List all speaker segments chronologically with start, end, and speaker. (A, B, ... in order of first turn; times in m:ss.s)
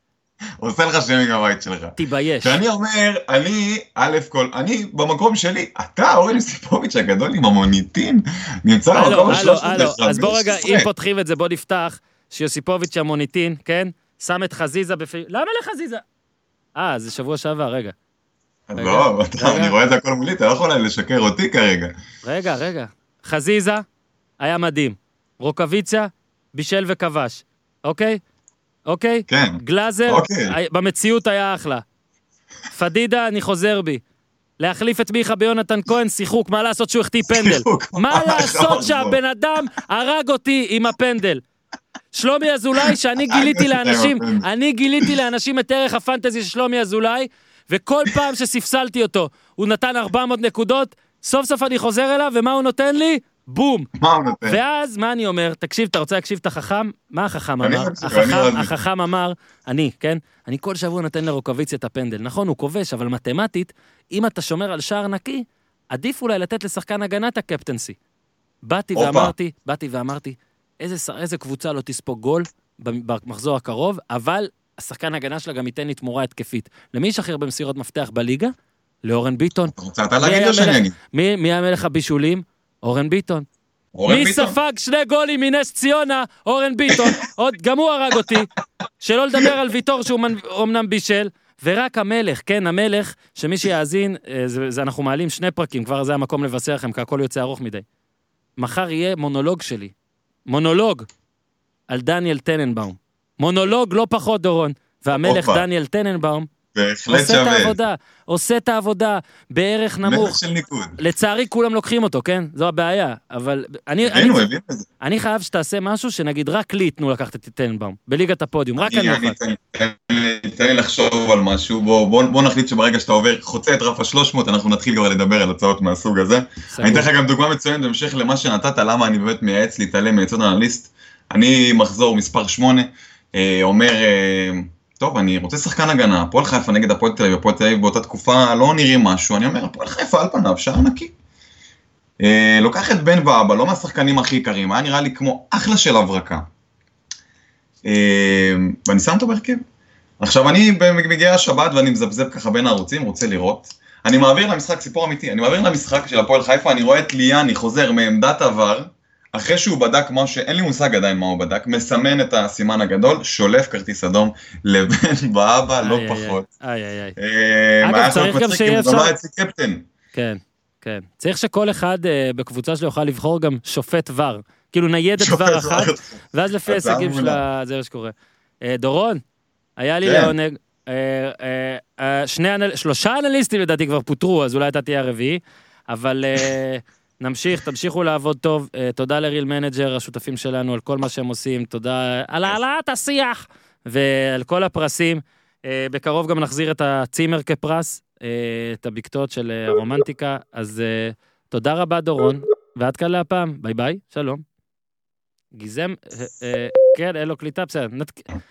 0:00.6-0:10.9 A
0:02.0-0:02.6 B
0:08.9-0:16.0 B
0:16.8-0:18.0 B
0:18.7-0:21.9 A
0:18.8-0:19.8 B
0:22.2-0:23.8 B
0:24.4-0:28.2 B
0:28.9-0:31.8 B
0:29.3-0:30.6 A
0:32.7-0:34.0 B
0:34.6-0:41.4 B
0:37.2-0:39.2 A
0:42.1-0:53.9 B
0:42.8-0:44.5 A
0:54.0-0:54.6 A
0:54.5-1:08.0 B
0:57.6-0:58.7 A
1:08.6-1:18.5 B
1:09.0-1:09.3 A
1:19.0-1:23.5 B
1:19.8-1:20.9 A
1:24.0-1:24.6 A
1:24.1-1:28.5 B
1:26.9-1:27.2 A
1:28.2-1:28.4 A
1:29.0-1:37.8 B
1:38.6-1:39.9 B
1:40.5-1:41.1 B
1:41.9-1:46.5 B
1:45.1-1:45.6 A
1:46.8-1:47.8 A
1:47.1-1:50.4 B
1:50.0-1:51.0 A
1:51.0-1:54.4 B
1:54.0-1:54.9 A
1:55.0-1:59.4 B
1:58.8-2:21.1 A
2:06.7-2:07.1 B
2:22.2-2:26.5 A
2:27.8-2:29.6 A
2:30.2-2:46.5 A
2:45.8-2:47.2 B
2:47.2-2:49.8 A
2:47.8-2:49.1 B
2:50.1-2:59.2 B
2:55.2-2:56.1 A
2:56.7-2:57.4 A
2:59.8-3:24.4 B
3:00.0-3:00.3 A
3:25.6-3:28.2 B